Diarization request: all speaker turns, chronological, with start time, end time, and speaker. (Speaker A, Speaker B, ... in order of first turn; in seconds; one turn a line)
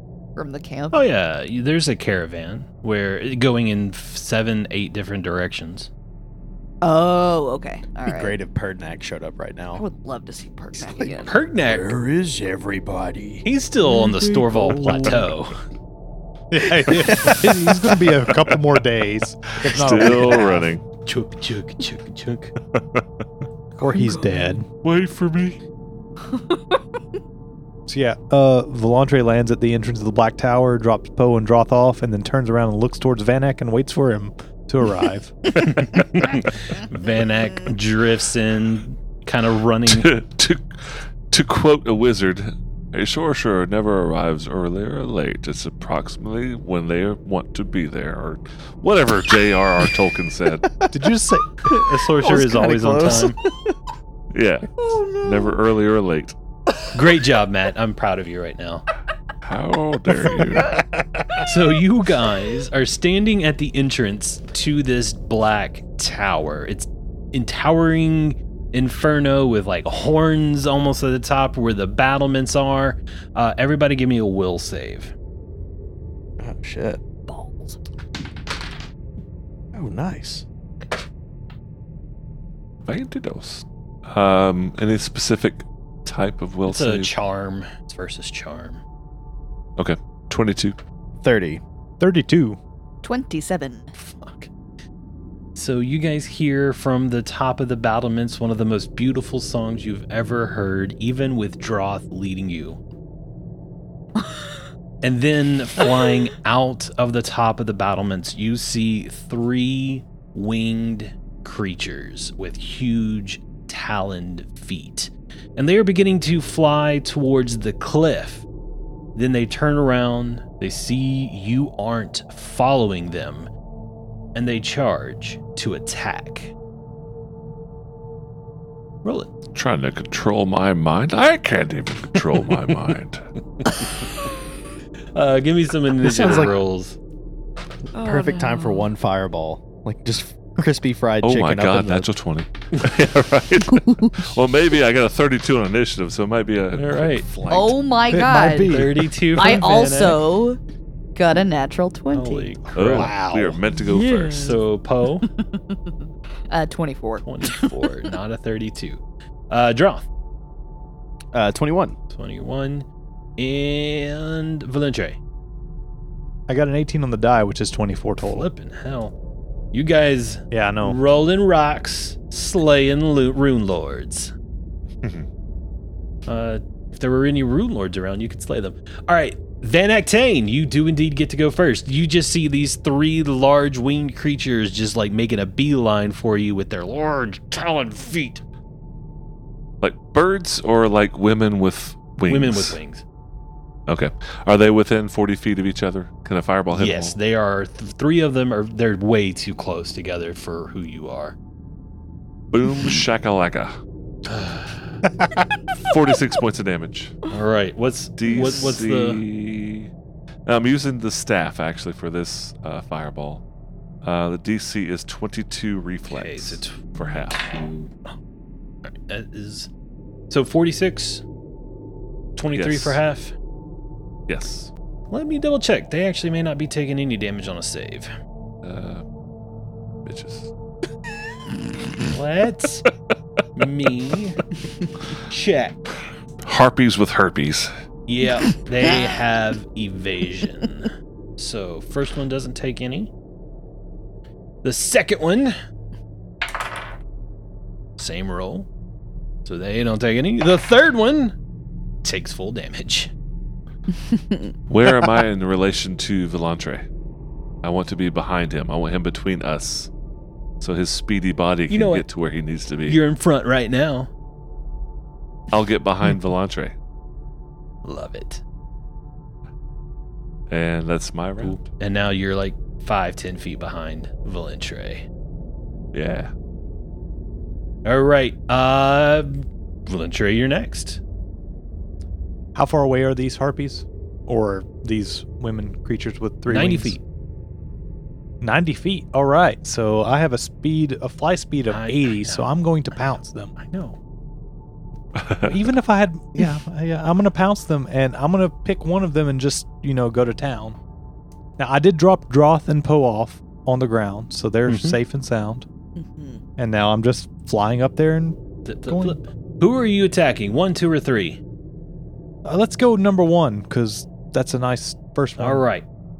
Speaker A: 0.3-1.1
Speaker B: 0.9-5.9
Speaker A: 6.8-8.3
Speaker C: 8.1-9.8
Speaker A: 9.8-11.3
Speaker C: 10.8-11.1
Speaker B: 11.1-11.9
Speaker C: 11.6-13.4
Speaker B: 13.4-15.6
Speaker D: 14.7-15.2
Speaker D: 16.5-20.7
Speaker E: 19.6-20.8
Speaker B: 21.0-22.5
Speaker E: 22.7-23.0
Speaker D: 23.8-24.7
Speaker A: 23.9-24.4
Speaker E: 24.8-25.6
Speaker A: 26.3-26.8
Speaker D: 27.9-35.6
Speaker B: 35.6-40.1
Speaker E: 39.9-50.7
Speaker D: 50.9-52.6
Speaker C: 51.6-53.4
Speaker B: 51.9-53.4
Speaker E: 54.3-56.3
Speaker A: 54.8-55.6
Speaker B: 56.9-58.8
Speaker E: 59.4-60.8
Speaker B: 61.4-75.1
Speaker C: 76.4-77.0
Speaker A: 77.3-77.8
Speaker C: 79.7-80.4
Speaker E: 82.8-87.1
Speaker B: 86.7-88.8
Speaker E: 89.8-90.8
Speaker C: 91.2-91.6
Speaker D: 92.0-92.6
Speaker A: 93.0-93.9
Speaker B: 94.0-94.5
Speaker B: 95.5-102.8
Speaker B: 105.0-118.5
Speaker B: 119.2-123.5
Speaker B: 124.3-126.5
Speaker B: 129.0-129.3
Speaker E: 129.5-133.2
Speaker B: 133.6-133.9
Speaker B: 135.1-137.0
Speaker C: 136.0-136.5
Speaker A: 137.9-138.9
Speaker C: 138.0-142.1
Speaker E: 141.2-147.8
Speaker A: 143.9-144.1
Speaker B: 146.7-147.3
Speaker A: 147.5-148.7
Speaker D: 148.1-149.2
Speaker B: 148.6-150.2
Speaker A: 149.3-150.6
Speaker A: 151.1-152.6
Speaker B: 152.1-153.2
Speaker E: 152.8-154.6
Speaker D: 152.9-153.6
Speaker A: 153.8-154.6
Speaker B: 154.3-155.3
Speaker A: 155.3-155.8
Speaker A: 156.5-158.1
Speaker B: 157.2-160.1
Speaker C: 161.3-161.9
Speaker B: 162.1-165.2
Speaker D: 166.5-168.5
Speaker B: 168.2-169.1
Speaker B: 169.7-174.3
Speaker D: 170.5-171.0
Speaker B: 176.3-188.4
Speaker E: 189.8-192.8
Speaker B: 192.3-193.0
Speaker E: 193.9-197.2
Speaker B: 196.7-201.4
Speaker E: 202.5-203.7
Speaker B: 204.2-204.8
Speaker E: 205.8-207.2
Speaker B: 207.3-209.2
Speaker E: 208.2-209.9
Speaker E: 210.4-213.4
Speaker E: 214.0-217.5
Speaker B: 216.1-218.0
Speaker B: 218.9-219.7
Speaker B: 220.3-221.2
Speaker B: 222.3-223.3
Speaker E: 222.5-223.0
Speaker E: 224.3-224.7
Speaker B: 225.1-228.1
Speaker E: 228.6-229.0
Speaker E: 230.0-230.5
Speaker B: 232.1-232.9
Speaker B: 233.6-234.4
Speaker B: 235.2-235.9
Speaker E: 236.4-237.7
Speaker B: 238.1-243.1
Speaker B: 244.6-245.5
Speaker B: 248.0-248.7
Speaker B: 249.4-251.3
Speaker B: 252.0-253.1
Speaker E: 254.7-256.9
Speaker E: 257.6-259.9
Speaker E: 260.6-263.0
Speaker B: 261.7-262.0
Speaker B: 262.9-264.1
Speaker E: 265.5-266.7
Speaker B: 267.8-268.4
Speaker E: 270.5-271.6
Speaker B: 271.4-275.1
Speaker E: 275.9-276.3
Speaker B: 277.8-281.0
Speaker D: 282.5-287.0
Speaker B: 286.5-287.0
Speaker D: 288.4-293.5
Speaker B: 291.7-292.5
Speaker B: 293.6-294.0
Speaker E: 295.1-295.5
Speaker D: 295.4-300.8
Speaker D: 301.6-305.6
Speaker B: 304.7-305.0
Speaker A: 306.0-306.4
Speaker D: 306.6-309.2
Speaker B: 308.6-311.4
Speaker D: 312.4-315.6
Speaker B: 315.4-315.8